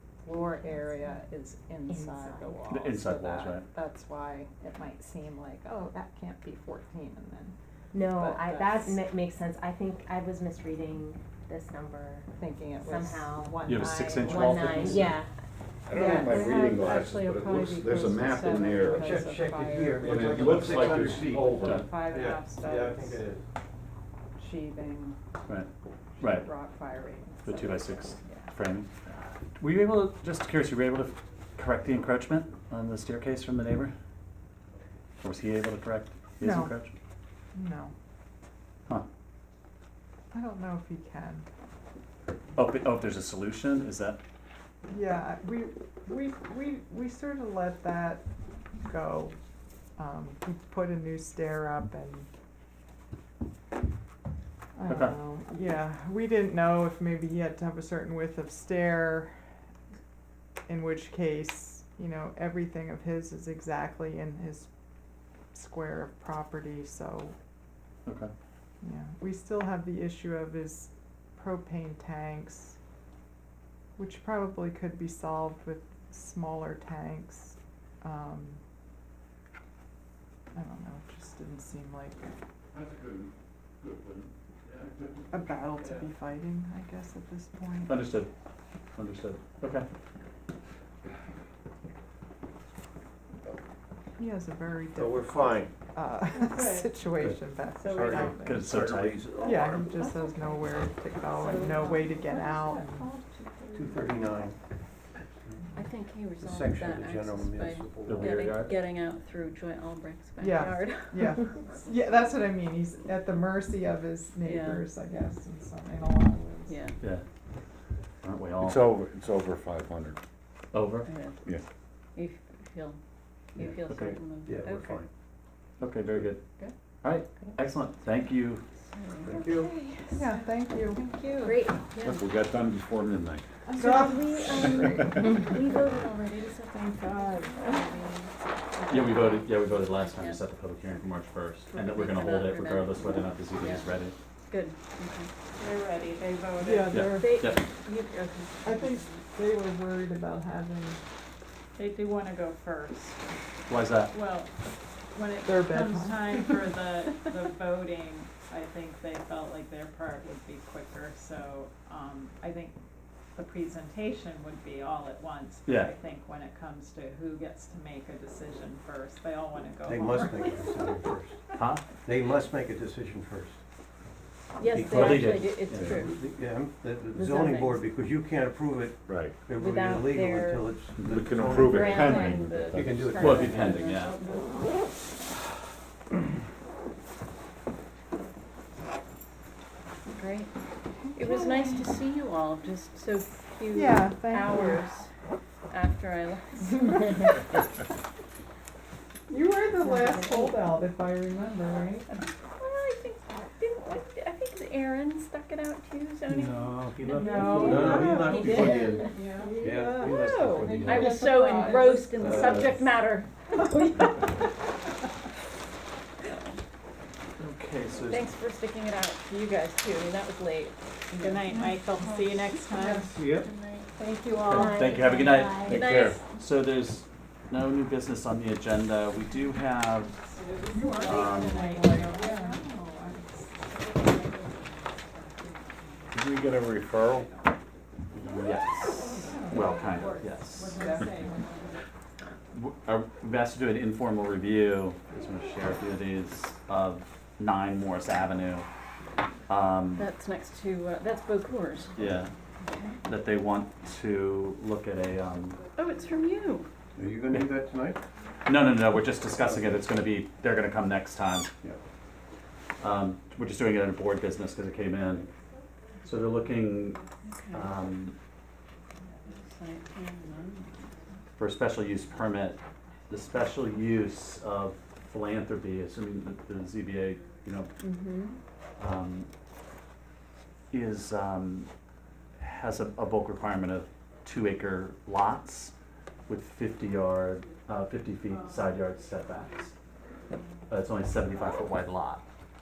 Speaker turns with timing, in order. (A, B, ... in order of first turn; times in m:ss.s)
0:00.2-0:05.3 A
0:01.9-0:02.6 B
0:02.7-0:03.7 C
0:04.9-0:07.5 D
0:06.0-0:06.7 A
0:07.9-0:12.3 B
0:08.2-0:08.9 A
0:08.3-0:08.5 D
0:12.4-0:14.7 D
0:12.4-0:15.1 A
0:12.8-0:15.3 B
0:13.6-0:15.1 C
0:15.8-0:19.2 E
0:15.9-0:23.2 A
0:16.1-0:17.0 D
0:18.8-0:23.4 F
0:20.0-0:21.9 E
0:21.6-0:21.9 C
0:24.4-0:25.2 A
0:24.4-0:25.1 D
0:26.2-0:26.5 C
0:26.2-0:28.4 A
0:27.0-0:27.4 D
0:27.4-0:28.9 C
0:29.6-0:33.9 C
0:35.2-0:36.9 C
0:36.4-0:36.8 D
0:37.5-0:37.9 D
0:40.3-0:41.4 D
0:42.6-0:44.2 C
0:44.9-0:48.2 D
0:48.8-0:49.4 D
0:50.0-0:52.3 D
0:54.7-0:59.4 D
0:54.9-0:55.2 C
1:00.7-1:04.7 D
1:05.5-1:07.3 D
1:08.0-1:08.3 C
1:08.8-1:12.8 D
1:14.0-1:18.6 D
1:20.5-1:22.2 D
1:22.7-1:23.3 E
1:23.8-1:25.1 E
1:25.3-1:28.0 D
1:27.9-1:28.3 C
1:28.9-1:29.8 C
1:34.2-1:38.6 D
1:34.9-1:35.7 F
1:37.1-1:40.0 F
1:37.9-1:38.3 G
1:38.3-1:39.3 C
1:39.4-1:43.1 D
1:43.7-1:44.6 F
1:45.7-1:51.5 G
1:46.4-1:48.5 F
1:48.0-1:48.7 C
1:50.4-1:56.8 D
1:54.4-1:54.8 G
1:56.7-1:57.0 G
1:57.0-1:57.2 C
1:58.2-1:59.0 C
1:58.6-2:00.2 E
2:00.7-2:01.1 C
2:01.0-2:01.4 G
2:02.2-2:03.0 G
2:03.6-2:05.0 G
2:03.8-2:04.2 C
2:04.3-2:05.1 F
2:05.8-2:06.4 C
2:07.0-2:08.6 C
2:08.9-2:09.4 G
2:09.2-2:09.7 F
2:10.1-2:11.0 D
2:11.0-2:12.2 G
2:11.4-2:11.9 B
2:12.0-2:13.4 E
2:13.7-2:14.8 D
2:14.3-2:20.4 G
2:14.8-2:15.1 E
2:14.9-2:15.7 B
2:17.0-2:17.7 H
2:18.9-2:24.1 C
2:21.7-2:25.3 G
2:25.6-2:26.8 H
2:26.6-2:29.2 G
2:26.6-2:27.5 D
2:26.9-2:27.6 C
2:28.6-2:31.0 D
2:31.8-2:33.0 H
2:33.7-2:34.1 C
2:34.1-2:34.4 H
2:35.2-2:42.7 H
2:35.4-2:36.8 D
2:35.7-2:36.5 A
2:37.1-2:37.5 A
2:43.4-2:49.7 H
2:45.6-2:45.9 C
2:47.8-2:48.4 A
2:49.0-2:50.5 A
2:49.8-2:53.6 F
2:51.5-2:51.9 C
2:54.6-2:56.2 G
2:54.6-3:03.8 F
2:54.8-2:56.0 C
2:57.1-2:57.8 G
2:59.0-2:59.3 E
2:59.5-3:00.7 G
3:01.0-3:03.1 E
3:01.6-3:04.4 G
3:03.1-3:04.1 C
3:10.1-3:10.5 G
3:10.9-3:11.9 D
3:11.1-3:15.1 G
3:13.7-3:14.8 D
3:15.7-3:17.3 G
3:19.3-3:22.1 D
3:22.5-3:29.0 G
3:26.5-3:31.2 F
3:27.2-3:28.2 D
3:27.2-3:27.9 A
3:29.1-3:29.5 H
3:29.3-3:30.1 D
3:30.0-3:34.5 G
3:30.6-3:31.8 H
3:30.6-3:32.5 A
3:32.1-3:32.8 F
3:32.4-3:32.6 H
3:37.4-3:38.3 C
3:38.1-3:44.7 G
3:41.2-3:43.1 H
3:42.8-3:43.0 D
3:43.1-3:43.4 F
3:44.5-3:50.1 C
3:44.5-3:45.8 B
3:45.6-3:46.2 G
3:50.1-3:52.5 H
3:50.6-3:55.6 A
3:50.7-3:52.6 D
3:51.0-3:51.6 C
3:56.1-3:57.3 E
3:58.1-4:01.1 C
3:59.2-3:59.7 D
3:59.2-3:59.4 H
4:00.0-4:01.3 H
4:00.7-4:01.6 D
4:01.0-4:01.3 A
4:02.5-4:08.7 C
4:09.5-4:10.1 C
4:09.9-4:12.0 G
4:11.9-4:12.3 C
4:13.0-4:15.6 C
4:15.7-4:16.7 G
4:17.0-4:18.0 F
4:18.4-4:21.8 C
4:19.4-4:19.8 F
4:22.8-4:25.3 C
4:26.0-4:28.1 C
4:27.2-4:27.7 G
4:29.4-4:30.9 G
4:31.4-4:32.6 C
4:33.1-4:37.7 C
4:37.8-4:38.3 G
4:38.8-4:39.3 C
4:40.7-4:41.7 C
4:42.4-4:45.7 C
4:46.3-4:49.7 C
4:50.7-4:52.2 C